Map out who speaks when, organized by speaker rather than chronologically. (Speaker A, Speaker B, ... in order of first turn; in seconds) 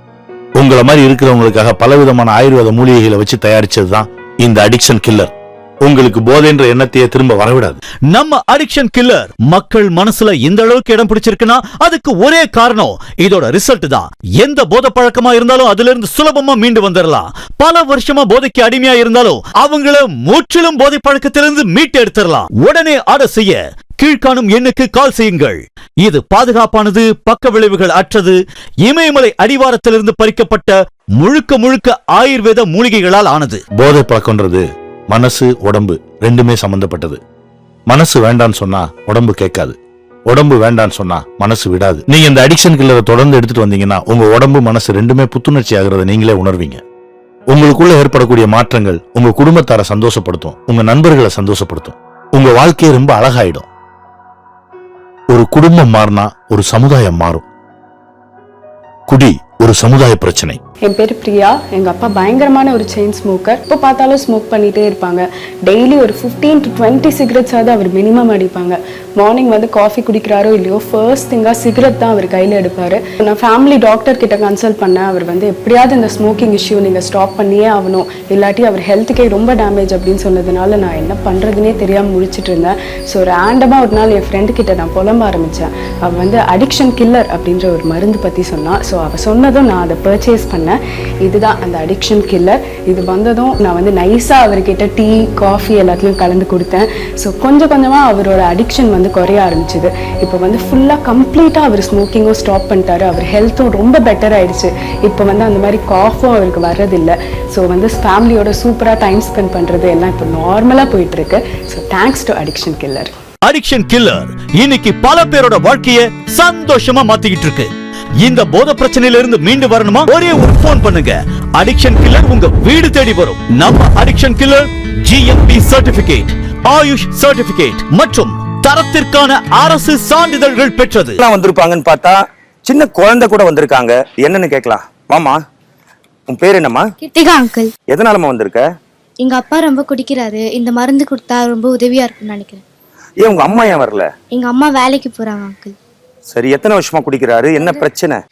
Speaker A: 0.6-5.3, 5.8-7.8, 33.8-37.2, 37.9-39.8, 40.3-46.8, 47.5-53.7, 55.3-57.4, 59.1-60.6
Speaker B: 8.1-33.6, 113.4-117.7, 118.2-131.2
Speaker C: 60.9-113.1
Speaker D: 131.2-132.1, 132.7-135.3, 136.3-136.8, 137.9-138.6, 143.2-144.1, 146.3-148.2
Speaker E: 137.0-137.7, 139.2-142.6, 144.3-145.7